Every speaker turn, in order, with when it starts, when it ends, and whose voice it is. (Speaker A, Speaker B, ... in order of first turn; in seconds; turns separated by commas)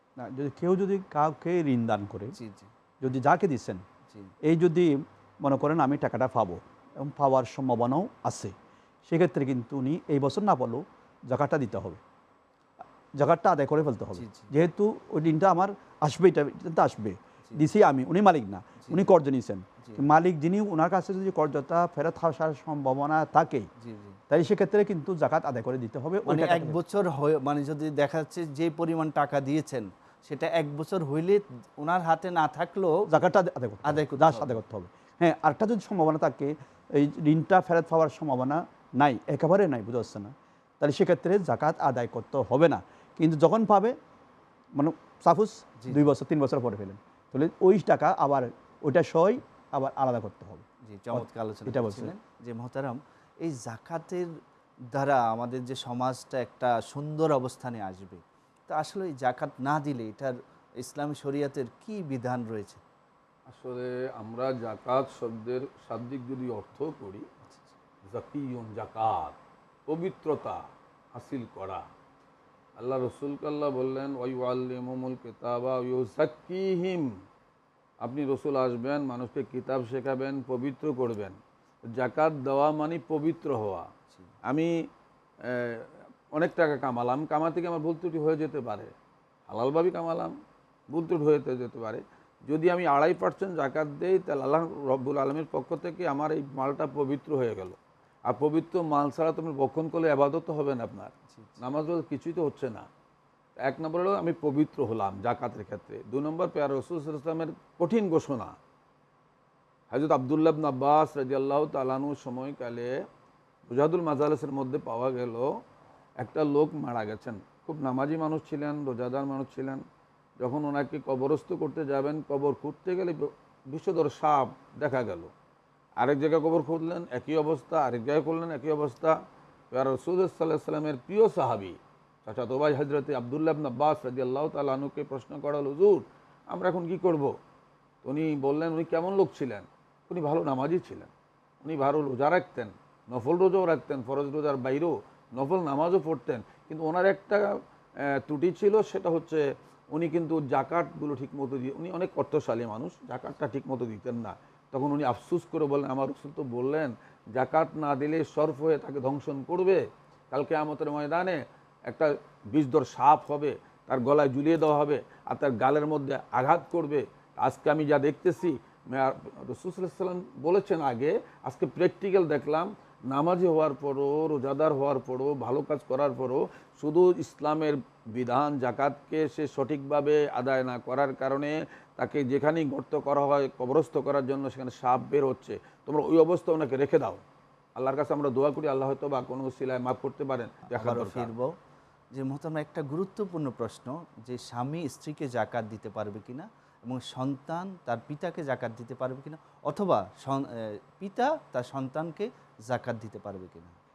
Speaker A: 0.2-2.3, Speaker B: 2.4-2.7, Speaker A: 3.0-3.8, Speaker A: 4.5-8.5, Speaker A: 9.1-12.0, Speaker A: 13.2-23.7, Speaker B: 14.2-14.5, Speaker B: 18.8-19.1, Speaker B: 23.8-24.2, Speaker A: 24.3-26.8, Speaker B: 26.3-33.1, Speaker A: 33.1-44.0, Speaker B: 33.9-34.6, Speaker A: 44.8-52.1, Speaker B: 50.9-54.3, Speaker B: 54.9-62.8, Speaker C: 63.5-67.3, Speaker C: 68.1-69.4, Speaker C: 69.9-70.6, Speaker C: 71.1-71.9, Speaker C: 72.8-77.1, Speaker C: 78.0-81.4, Speaker C: 81.9-83.9, Speaker C: 84.5-84.7, Speaker C: 85.5-88.9, Speaker C: 89.5-90.3, Speaker C: 90.9-102.9, Speaker C: 103.6-108.6, Speaker C: 109.9-112.9, Speaker C: 113.7-115.5, Speaker C: 116.2-119.8, Speaker C: 120.4-125.3, Speaker C: 126.0-129.2, Speaker C: 129.7-137.3, Speaker C: 138.0-141.1, Speaker C: 141.6-147.4, Speaker C: 148.1-187.2, Speaker C: 187.8-191.3, Speaker B: 190.7-191.5, Speaker B: 192.1-203.8